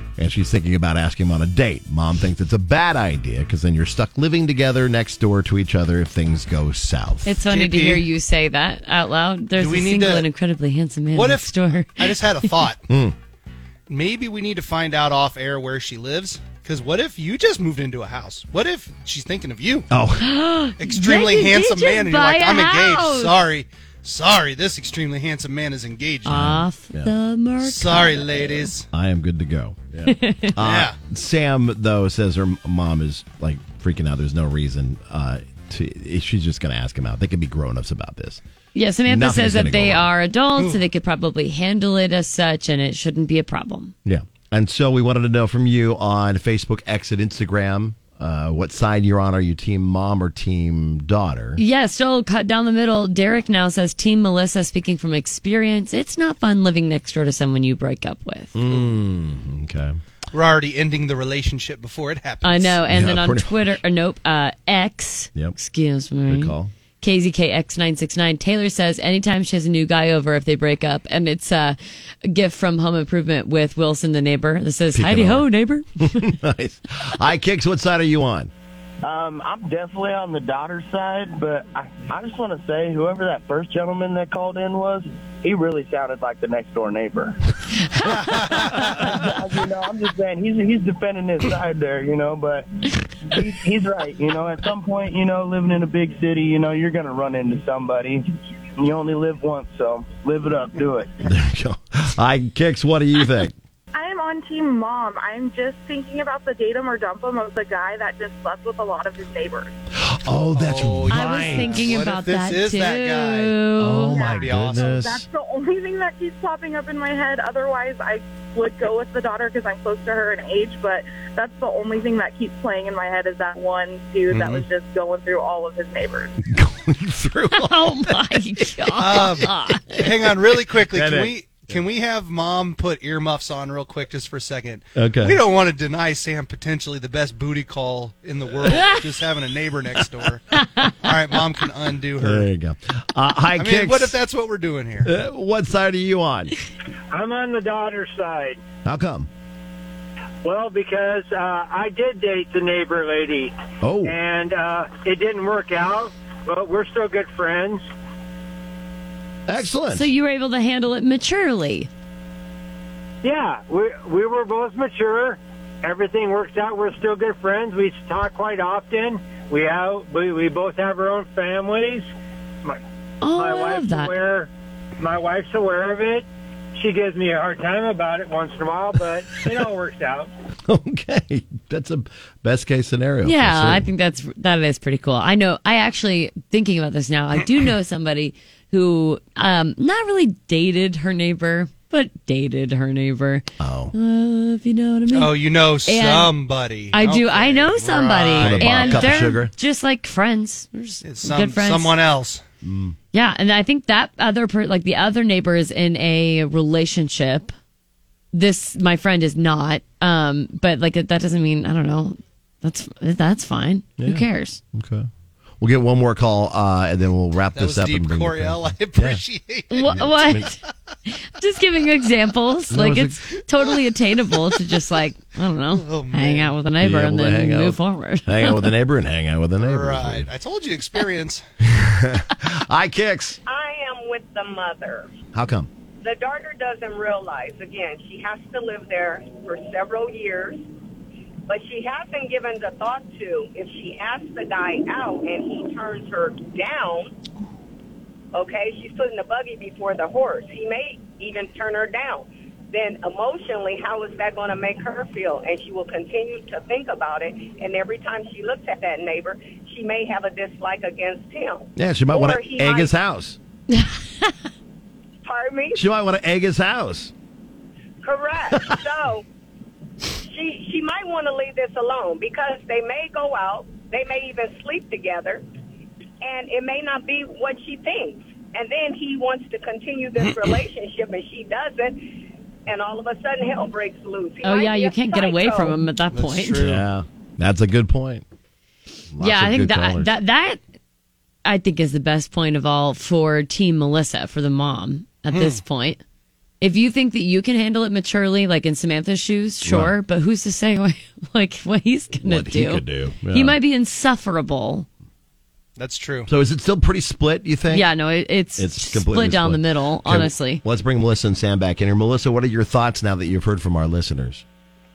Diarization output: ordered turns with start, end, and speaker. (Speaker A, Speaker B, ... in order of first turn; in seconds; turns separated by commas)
Speaker A: 0.2-7.4, Speaker B: 7.3-12.5, Speaker C: 7.5-8.1, Speaker C: 9.6-10.3, Speaker C: 11.1-12.8, Speaker A: 12.9-13.2, Speaker C: 13.9-19.9, Speaker A: 19.9-20.3, Speaker B: 20.2-23.3, Speaker C: 20.8-26.5, Speaker B: 26.3-28.5, Speaker A: 26.3-27.1, Speaker C: 27.6-28.9, Speaker A: 28.9-38.4, Speaker B: 30.1-30.6, Speaker C: 30.6-31.0, Speaker B: 38.7-43.9, Speaker A: 39.1-40.1, Speaker A: 44.0-51.6, Speaker B: 51.6-58.5, Speaker A: 58.5-60.0, Speaker C: 60.3-62.8, Speaker B: 62.4-76.3, Speaker A: 62.9-63.6, Speaker A: 66.3-66.7, Speaker A: 74.9-75.5, Speaker A: 76.0-78.5, Speaker D: 79.0-87.4, Speaker D: 88.3-92.7, Speaker D: 93.3-98.2, Speaker D: 98.8-101.1, Speaker A: 101.2-103.6, Speaker E: 103.9-109.8, Speaker A: 110.0-111.9, Speaker C: 110.5-113.5, Speaker B: 111.1-114.3, Speaker A: 113.8-115.3, Speaker E: 114.1-126.3, Speaker C: 114.2-115.0, Speaker C: 124.3-124.7, Speaker A: 126.4-130.0, Speaker B: 127.5-130.0, Speaker C: 129.0-142.5, Speaker A: 130.8-131.8, Speaker A: 135.0-135.4, Speaker B: 140.6-140.9, Speaker A: 142.2-144.2, Speaker C: 143.6-145.1, Speaker A: 145.0-146.6, Speaker F: 147.1-148.6, Speaker A: 148.8-149.3, Speaker F: 150.4-153.5, Speaker A: 153.8-154.2, Speaker F: 154.0-157.8, Speaker A: 159.5-160.1, Speaker B: 159.9-161.9, Speaker F: 163.2-172.1, Speaker B: 173.2-174.1, Speaker F: 173.4-174.5, Speaker F: 175.0-176.3, Speaker F: 176.8-180.3, Speaker A: 180.7-183.9, Speaker B: 183.2-196.3, Speaker A: 193.6-193.9, Speaker C: 195.1-199.3, Speaker B: 196.9-202.0, Speaker A: 198.4-199.5, Speaker C: 201.0-202.4, Speaker A: 202.6-203.0, Speaker B: 203.1-207.5, Speaker B: 208.3-214.6, Speaker A: 214.0-215.1, Speaker A: 215.6-219.2, Speaker C: 217.5-220.3, Speaker B: 219.7-228.7, Speaker A: 219.8-220.5, Speaker A: 222.7-223.2, Speaker C: 225.7-226.5, Speaker A: 226.8-230.3, Speaker C: 229.6-231.4, Speaker A: 231.6-233.4, Speaker G: 233.5-235.1, Speaker A: 235.3-235.7, Speaker G: 236.0-240.6, Speaker G: 241.5-247.2, Speaker G: 248.3-262.9, Speaker A: 261.8-263.4, Speaker B: 263.7-264.3, Speaker G: 265.2-265.8, Speaker A: 265.8-267.1, Speaker G: 268.0-269.2, Speaker G: 270.2-275.4, Speaker G: 276.2-282.1, Speaker G: 282.7-285.8, Speaker B: 284.4-286.6, Speaker C: 286.1-286.8, Speaker A: 286.6-288.2, Speaker A: 289.1-290.1, Speaker B: 289.2-290.6, Speaker B: 291.4-296.0, Speaker C: 295.3-295.6, Speaker B: 296.6-304.9, Speaker A: 299.6-299.9, Speaker A: 302.2-303.6, Speaker C: 305.8-306.3, Speaker A: 306.3-307.9, Speaker B: 307.7-310.6, Speaker A: 308.6-314.4